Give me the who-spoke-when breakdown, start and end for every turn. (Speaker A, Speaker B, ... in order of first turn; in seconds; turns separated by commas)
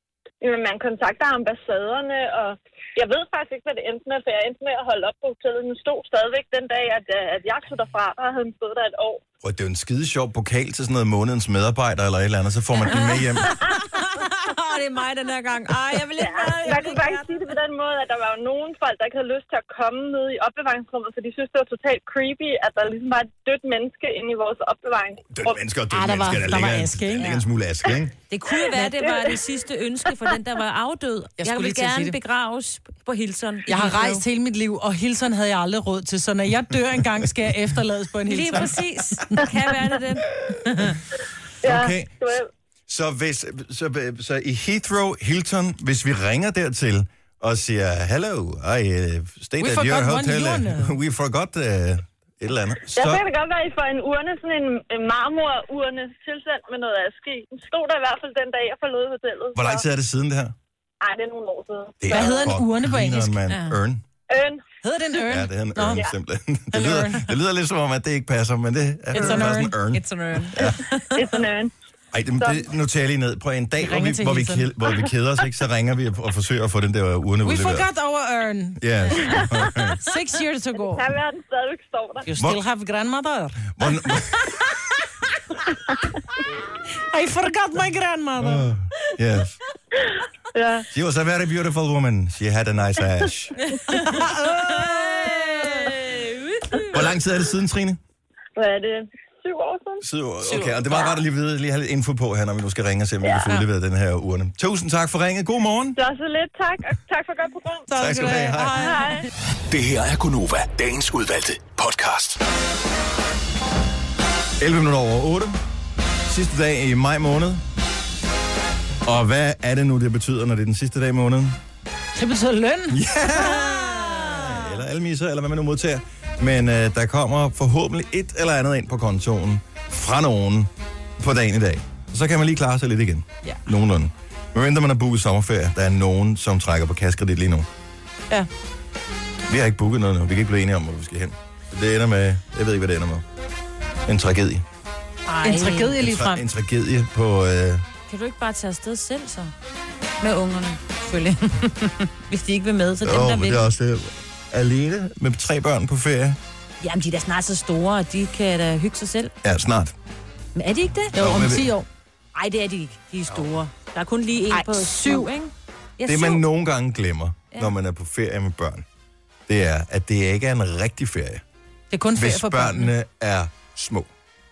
Speaker A: 0.4-9.2, Speaker B: 9.4-13.6, Speaker C: 12.9-17.3, Speaker A: 16.2-25.6, Speaker B: 25.3-28.1, Speaker D: 25.9-27.4, Speaker C: 28.3-34.2, Speaker A: 28.6-29.4, Speaker D: 31.4-32.1, Speaker D: 33.7-38.8, Speaker C: 38.2-40.3, Speaker B: 41.6-42.3, Speaker A: 41.6-42.4, Speaker B: 42.9-53.2, Speaker D: 49.6-51.0, Speaker A: 52.9-59.8, Speaker B: 59.5-60.5, Speaker A: 61.0-62.5, Speaker B: 62.0-64.0, Speaker D: 62.1-63.4, Speaker A: 64.3-64.6, Speaker D: 64.8-66.1, Speaker B: 65.3-70.8, Speaker D: 66.7-67.3, Speaker D: 69.1-69.8, Speaker C: 69.3-71.2, Speaker A: 71.1-71.7, Speaker B: 72.1-77.9, Speaker A: 72.4-72.7, Speaker D: 73.8-74.7, Speaker D: 77.4-81.1, Speaker B: 78.8-80.0, Speaker A: 80.8-82.3, Speaker D: 82.2-83.7, Speaker B: 83.8-84.6, Speaker D: 87.0-88.7, Speaker B: 88.4-89.6, Speaker A: 90.5-90.8, Speaker B: 90.9-93.5, Speaker D: 93.9-95.9, Speaker C: 94.6-97.0, Speaker B: 96.9-98.0, Speaker A: 98.6-100.0, Speaker B: 100.0-106.0, Speaker A: 106.0-107.9, Speaker D: 107.9-109.2, Speaker B: 107.9-108.9, Speaker A: 108.8-109.2, Speaker E: 109.7-112.4, Speaker B: 114.6-115.6, Speaker B: 116.2-117.6, Speaker B: 119.0-121.6, Speaker D: 122.1-123.0, Speaker B: 122.9-137.7, Speaker B: 139.5-143.2, Speaker B: 144.1-144.6, Speaker C: 145.3-145.9, Speaker D: 145.4-146.4, Speaker B: 146.0-147.8, Speaker C: 148.1-149.5, Speaker C: 150.2-153.7, Speaker B: 153.0-156.4, Speaker C: 156.8-159.3, Speaker B: 159.4-159.9, Speaker C: 160.5-161.1, Speaker D: 161.1-161.8, Speaker B: 161.2-161.7, Speaker C: 162.3-166.4, Speaker D: 164.5-165.3, Speaker B: 166.1-168.8, Speaker B: 169.5-171.4, Speaker D: 171.9-172.9, Speaker B: 172.1-174.1